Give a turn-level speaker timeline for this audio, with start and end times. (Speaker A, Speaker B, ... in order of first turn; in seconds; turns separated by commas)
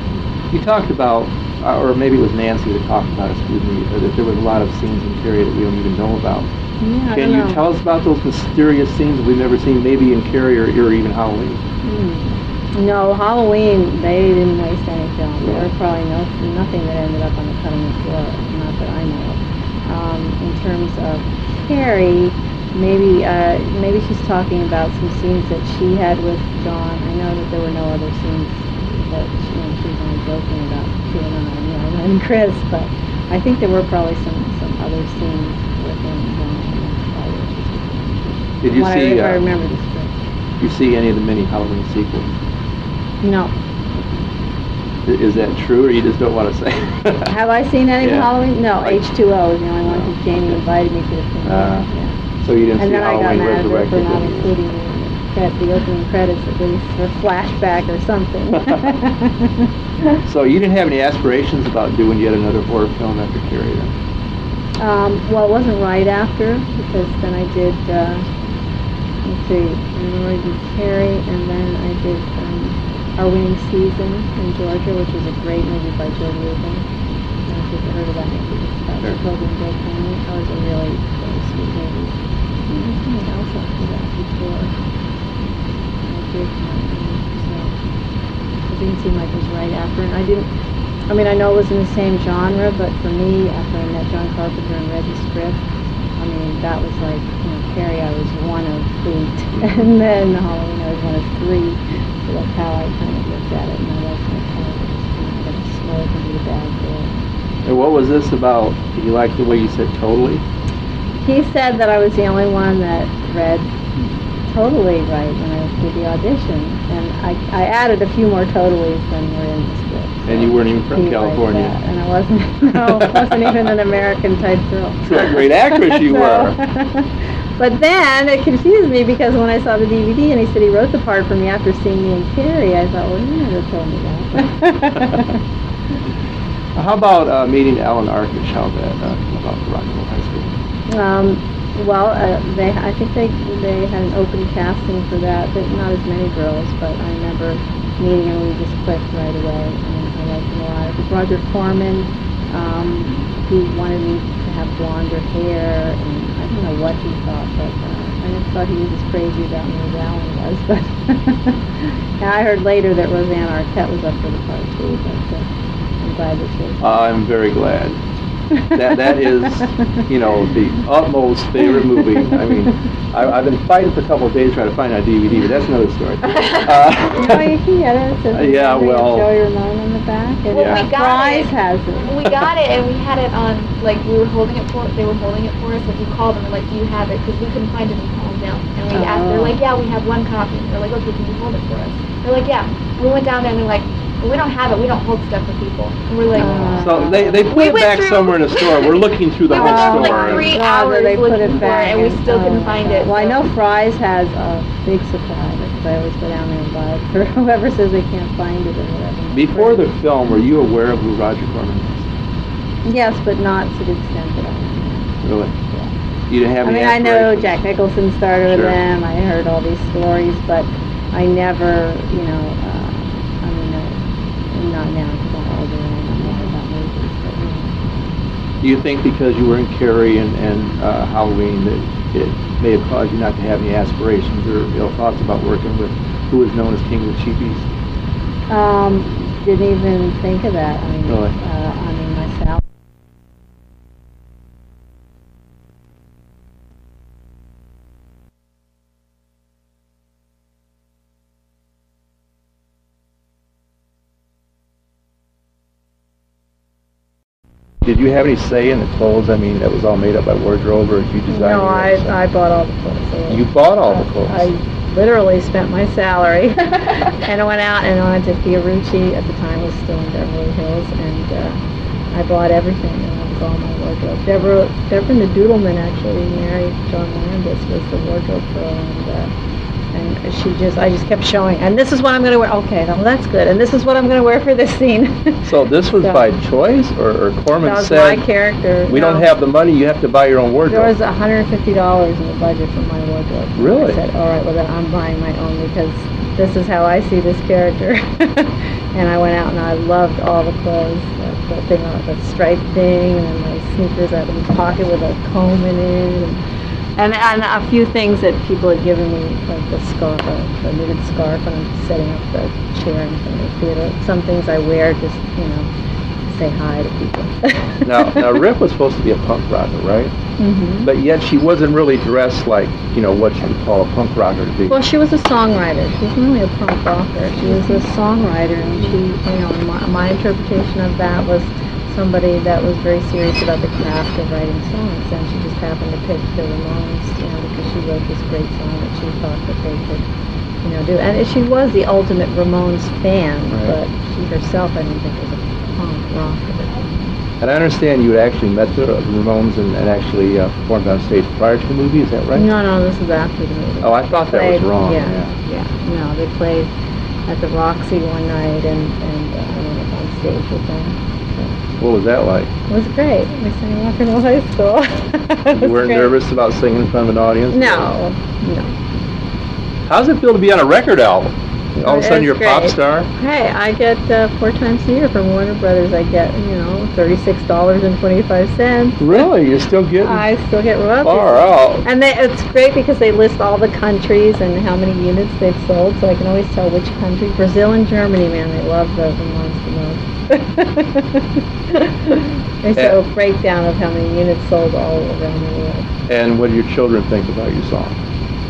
Speaker A: 0.5-6.5, Speaker B: 6.8-7.6, Speaker A: 7.1-11.6, Speaker B: 11.8-40.1, Speaker A: 38.6-39.4, Speaker A: 40.6-42.3, Speaker B: 43.2-43.5, Speaker A: 45.0-47.3, Speaker B: 47.3-52.1, Speaker A: 48.0-49.0, Speaker A: 49.9-50.1, Speaker A: 51.4-51.9, Speaker A: 52.4-54.5, Speaker B: 52.8-59.7, Speaker A: 60.3-63.9, Speaker B: 64.8-68.2, Speaker B: 69.2-76.9, Speaker B: 77.5-82.2, Speaker B: 82.7-84.7, Speaker B: 86.1-87.8, Speaker B: 88.7-90.5, Speaker B: 91.1-95.6, Speaker B: 96.2-107.1, Speaker A: 107.6-110.4, Speaker B: 111.2-113.7, Speaker B: 114.5-135.3, Speaker A: 120.3-121.8, Speaker A: 122.9-123.5, Speaker A: 125.1-126.6, Speaker A: 136.8-140.5, Speaker B: 140.9-165.5, Speaker B: 166.0-167.0, Speaker A: 166.8-168.0, Speaker B: 168.5-169.8, Speaker A: 168.7-177.5, Speaker B: 177.0-182.2, Speaker A: 178.3-179.3, Speaker C: 180.5-181.5, Speaker A: 180.5-180.8, Speaker C: 182.0-203.5, Speaker B: 188.9-189.6, Speaker B: 196.3-197.5, Speaker A: 196.4-200.6, Speaker B: 199.6-209.9, Speaker A: 209.3-212.1, Speaker B: 212.8-215.2, Speaker A: 215.2-215.5, Speaker A: 216.3-217.6, Speaker B: 216.6-227.8, Speaker A: 218.5-218.8, Speaker A: 228.6-237.7, Speaker B: 238.5-242.6, Speaker A: 241.1-241.3, Speaker A: 257.8-262.1, Speaker B: 261.3-271.6, Speaker A: 263.3-264.5, Speaker B: 272.1-279.3, Speaker B: 279.9-286.3, Speaker A: 285.4-288.2, Speaker B: 287.6-289.3, Speaker A: 288.9-290.9, Speaker B: 290.7-306.4, Speaker A: 293.6-294.0, Speaker B: 307.0-315.7, Speaker B: 316.3-318.4, Speaker A: 317.8-320.1, Speaker B: 320.4-320.9, Speaker A: 320.8-324.8, Speaker B: 324.7-340.0, Speaker B: 340.6-347.1, Speaker A: 347.4-352.5, Speaker B: 352.3-356.7, Speaker A: 353.8-355.3, Speaker B: 357.3-361.6, Speaker A: 361.8-362.5, Speaker B: 362.7-366.1, Speaker A: 365.5-367.9, Speaker B: 367.5-368.8, Speaker A: 369.9-373.1, Speaker B: 371.8-379.2, Speaker A: 379.0-380.2, Speaker B: 380.0-395.9, Speaker A: 381.0-381.8, Speaker A: 396.1-398.0